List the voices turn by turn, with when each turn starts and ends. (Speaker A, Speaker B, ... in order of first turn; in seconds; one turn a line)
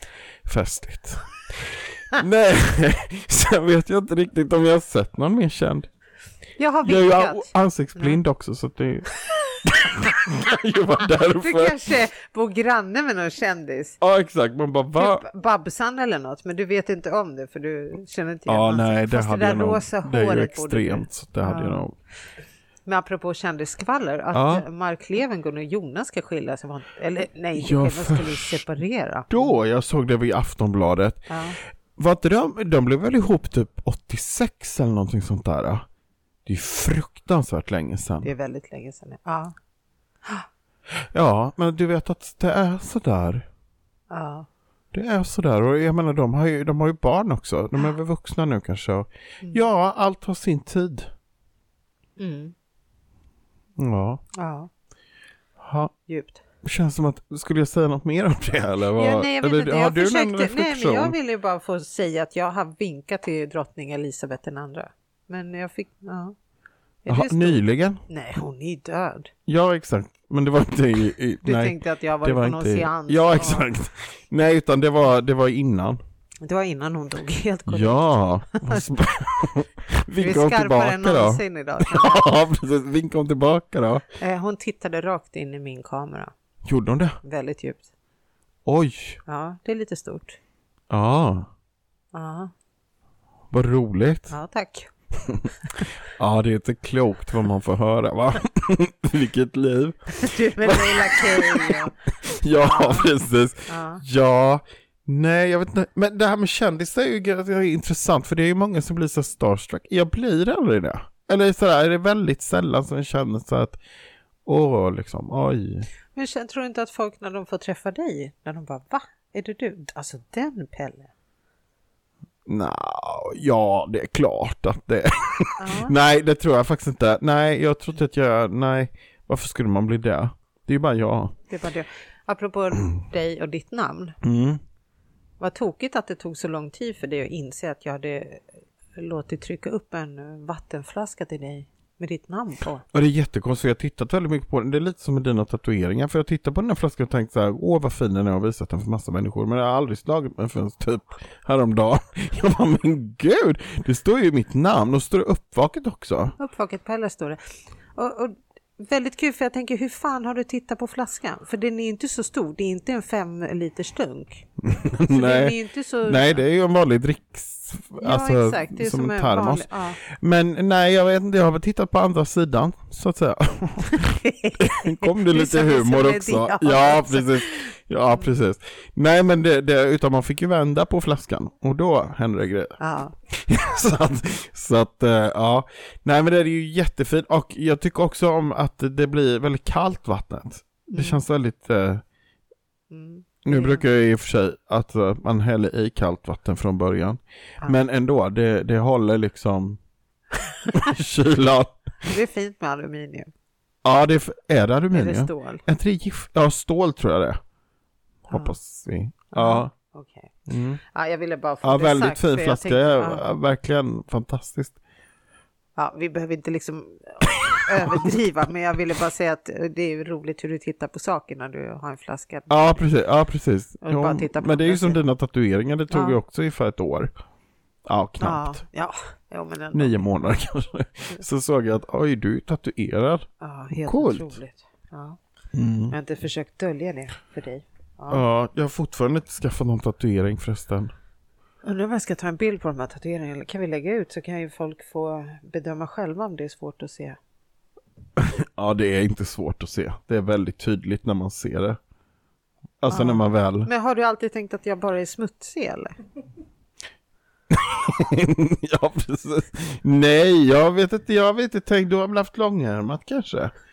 Speaker A: 0.4-5.9
Speaker B: 6.6-8.2
Speaker A: 6.8-9.1
Speaker A: 9.6-11.8
Speaker B: 11.3-14.0
Speaker A: 14.0-15.2
Speaker B: 15.0-21.9
Speaker A: 18.5-21.9
Speaker B: 22.9-29.5
Speaker A: 24.3-24.6
Speaker A: 27.6-28.6
Speaker A: 29.3-31.2
Speaker B: 31.3-31.6
Speaker A: 31.9-35.8
Speaker A: 36.5-38.3
Speaker B: 38.2-39.5
Speaker A: 41.0-43.5
Speaker B: 44.1-44.5
Speaker A: 44.9-51.1
Speaker B: 52.2-52.5
Speaker A: 53.8-54.2
Speaker B: 54.4-54.7
Speaker A: 55.6-55.9
Speaker B: 56.1-56.4
Speaker A: 56.6-61.1
Speaker B: 59.0-66.3
Speaker B: 67.0-69.3
Speaker A: 67.1-68.0
Speaker A: 69.5-76.0
Speaker B: 71.4-73.7
Speaker B: 76.4-78.0
Speaker A: 77.7-84.0
Speaker B: 78.5-78.9
Speaker B: 80.1-82.3
Speaker B: 84.1-86.3
Speaker A: 86.6-87.2
Speaker B: 87.2-87.9
Speaker A: 88.6-89.2
Speaker B: 89.2-90.4
Speaker A: 90.9-91.5
Speaker B: 92.1-92.5
Speaker A: 93.5-94.3
Speaker B: 94.3-94.9
Speaker A: 96.2-113.8
Speaker B: 100.1-102.0
Speaker B: 102.5-103.1
Speaker B: 103.7-104.0
Speaker A: 114.5-115.9
Speaker B: 116.1-121.1
Speaker A: 122.5-131.3
Speaker B: 125.6-125.9
Speaker B: 131.5-134.2
Speaker A: 134.2-134.6
Speaker B: 135.4-138.4
Speaker B: 138.9-142.8
Speaker A: 142.9-156.3
Speaker B: 156.4-157.4
Speaker B: 157.9-166.4
Speaker A: 164.7-192.0
Speaker B: 168.0-170.0
Speaker B: 173.9-177.7
Speaker B: 182.8-183.1
Speaker B: 190.9-191.2
Speaker B: 192.9-193.8
Speaker A: 193.4-199.8
Speaker A: 200.7-201.9
Speaker B: 202.0-203.3
Speaker A: 203.8-207.4
Speaker B: 204.9-205.6
Speaker A: 208.3-209.7
Speaker B: 208.3-208.5
Speaker B: 209.3-210.3
Speaker A: 210.5-210.8
Speaker B: 210.9-213.3
Speaker A: 211.6-214.8
Speaker B: 215.8-222.6
Speaker A: 217.8-218.1
Speaker A: 222.5-227.1
Speaker B: 223.8-225.0
Speaker B: 225.9-226.2
Speaker A: 227.9-228.6
Speaker B: 228.2-230.1
Speaker A: 229.7-233.3
Speaker B: 233.4-235.2
Speaker A: 233.8-234.3
Speaker A: 235.5-235.9
Speaker B: 235.9-238.2
Speaker A: 238.1-240.9
Speaker B: 241.6-247.2
Speaker A: 248.2-251.8
Speaker A: 252.8-253.7
Speaker B: 252.9-255.9
Speaker A: 257.5-263.5